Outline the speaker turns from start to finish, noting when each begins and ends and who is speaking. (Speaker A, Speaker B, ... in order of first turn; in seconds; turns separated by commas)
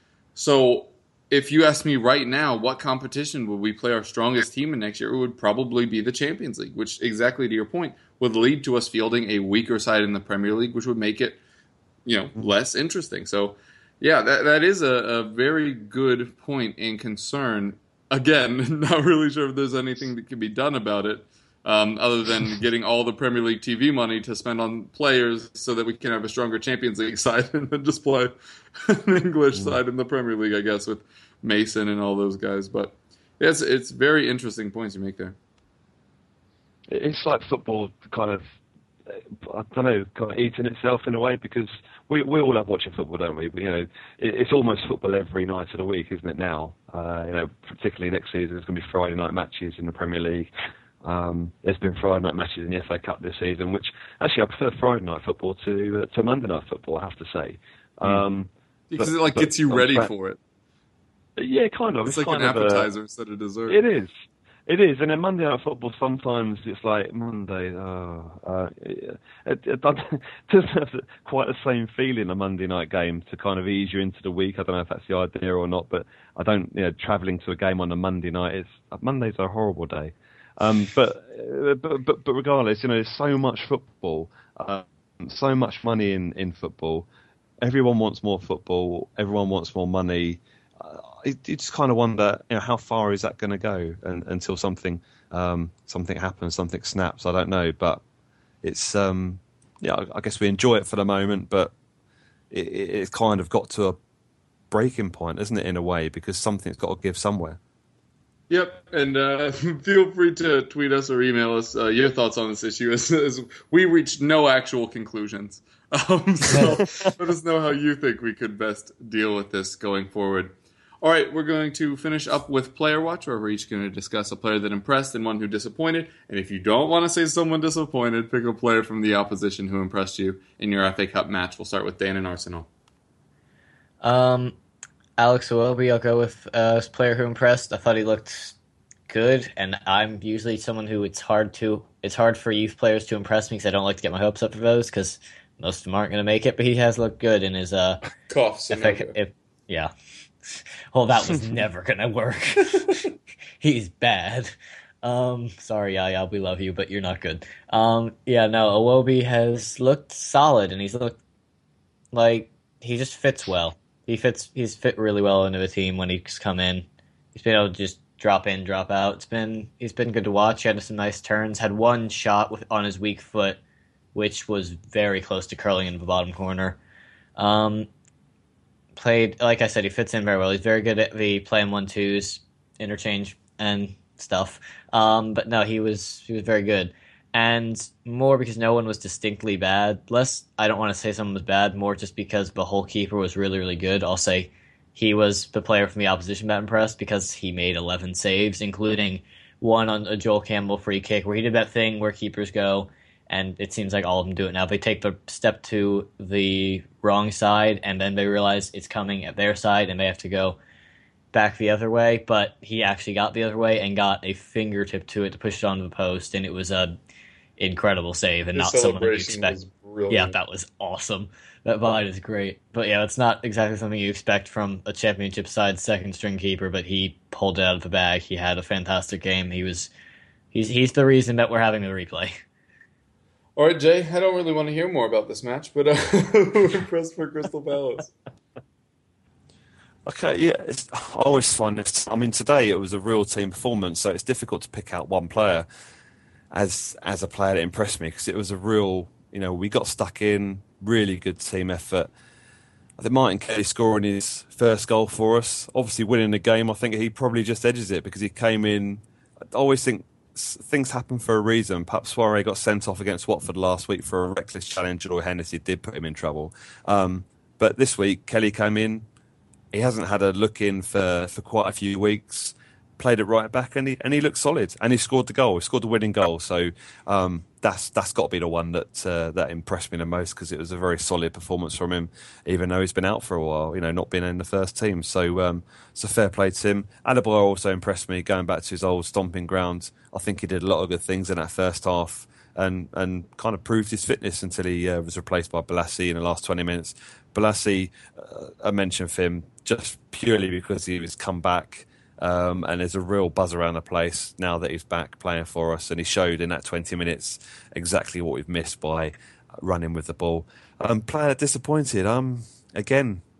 Speaker A: 0.3-11.4, Speaker A: 12.1-35.4, Speaker B: 29.5-29.8, Speaker B: 36.9-38.4, Speaker B: 39.4-50.5, Speaker B: 51.0-60.1, Speaker A: 58.9-60.4, Speaker B: 61.4-62.9, Speaker A: 62.0-63.8, Speaker B: 63.7-64.1, Speaker B: 64.7-87.1, Speaker B: 87.6-98.0, Speaker B: 98.6-101.7, Speaker B: 102.5-104.0, Speaker B: 104.7-107.6, Speaker A: 108.5-132.7, Speaker C: 134.0-134.5, Speaker C: 135.2-138.5, Speaker C: 139.1-148.0, Speaker A: 148.3-149.2, Speaker C: 148.7-149.9, Speaker C: 150.9-153.0, Speaker C: 153.6-161.2, Speaker C: 162.1-173.6, Speaker C: 174.1-176.8, Speaker C: 177.4-177.9, Speaker C: 178.9-210.6, Speaker C: 211.3-216.9, Speaker C: 217.6-219.6, Speaker A: 218.5-220.3, Speaker C: 220.1-229.9, Speaker C: 230.5-232.4, Speaker A: 233.6-238.1, Speaker B: 240.1-245.7, Speaker B: 246.5-252.1, Speaker B: 253.0-269.0, Speaker B: 269.7-313.2